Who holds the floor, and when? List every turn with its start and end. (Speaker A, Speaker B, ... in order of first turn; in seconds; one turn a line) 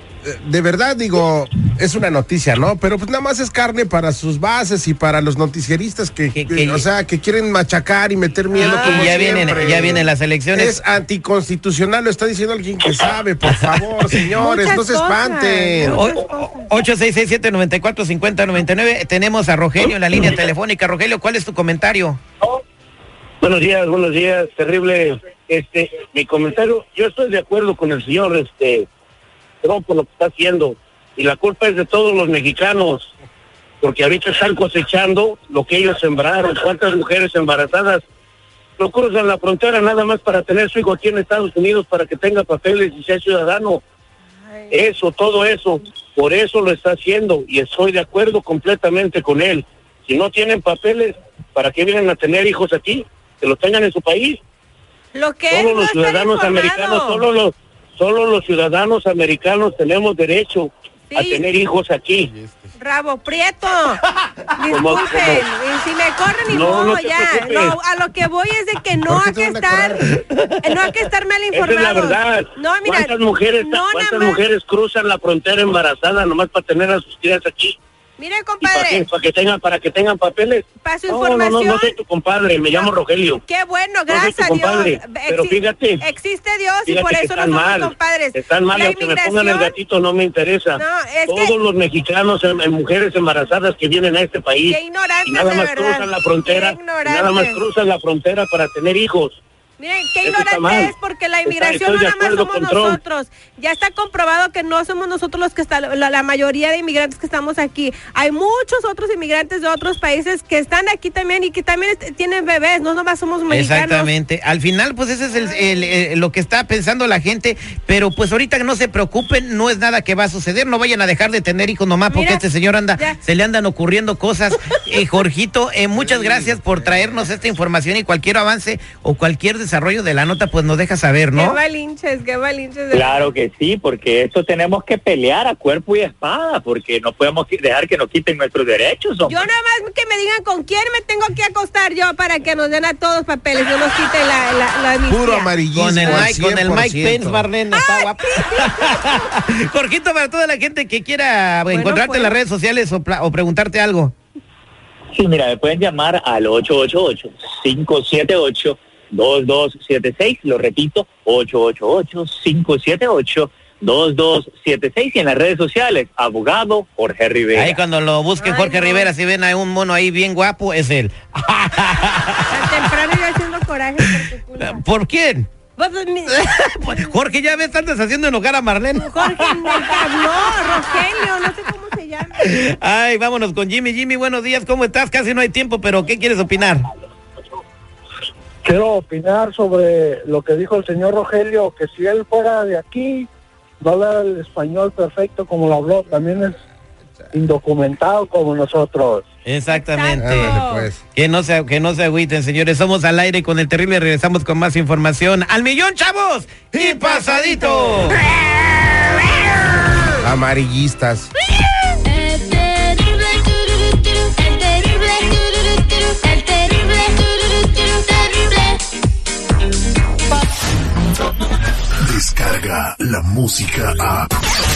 Speaker A: 0.2-16.0
Speaker B: 6.3-6.8
Speaker C: 8.6-9.3
Speaker B: 8.6-10.8
Speaker B: 13.4-14.2
Speaker C: 14.4-16.7
Speaker B: 15.9-22.2
Speaker D: 23.4-28.9
Speaker D: 29.6-33.1
Speaker D: 33.8-38.0
Speaker D: 38.8-43.8
Speaker C: 44.4-44.8
Speaker D: 44.7-54.4
Speaker C: 55.1-57.2
Speaker D: 55.5-62.3
Speaker C: 61.1-61.4
Speaker C: 62.8-64.0
Speaker C: 64.6-70.1
Speaker D: 64.7-65.4
Speaker D: 66.5-67.8
Speaker A: 69.1-70.1
Speaker B: 70.3-70.7
Speaker C: 70.6-74.4
Speaker D: 71.5-77.8
Speaker C: 78.2-79.1
Speaker D: 78.6-83.4
Speaker C: 80.8-82.0
Speaker C: 83.4-89.8
Speaker D: 84.1-86.0
Speaker D: 86.8-99.4
Speaker C: 90.7-91.5
Speaker C: 94.7-97.6
Speaker C: 99.8-114.1
Speaker D: 100.2-100.9
Speaker D: 101.5-103.0
Speaker B: 113.5-131.6
Speaker C: 115.3-115.9
Speaker C: 122.1-122.5
Speaker A: 125.9-127.4
Speaker C: 131.3-133.2
Speaker E: 132.9-139.4
Speaker C: 139.2-145.5
Speaker A: 145.1-147.5
Speaker B: 145.7-154.1
Speaker C: 147.7-149.3
Speaker C: 151.7-152.3
Speaker E: 155.1-167.8
Speaker B: 167.5-172.8
Speaker C: 168.4-169.1
Speaker C: 172.5-174.8
Speaker B: 174.6-175.5
Speaker C: 175.8-177.1
Speaker B: 176.3-180.8
Speaker C: 178.9-182.4
Speaker B: 182.3-186.8
Speaker F: 188.6-193.3
Speaker F: 193.8-196.6
Speaker F: 197.3-199.2
Speaker B: 199.4-200.6
Speaker C: 199.7-200.9
Speaker A: 200.2-201.0
Speaker B: 201.1-208.2
Speaker C: 207.1-207.7
Speaker A: 210.2-211.3
Speaker C: 212.0-218.8
Speaker G: 222.0-224.3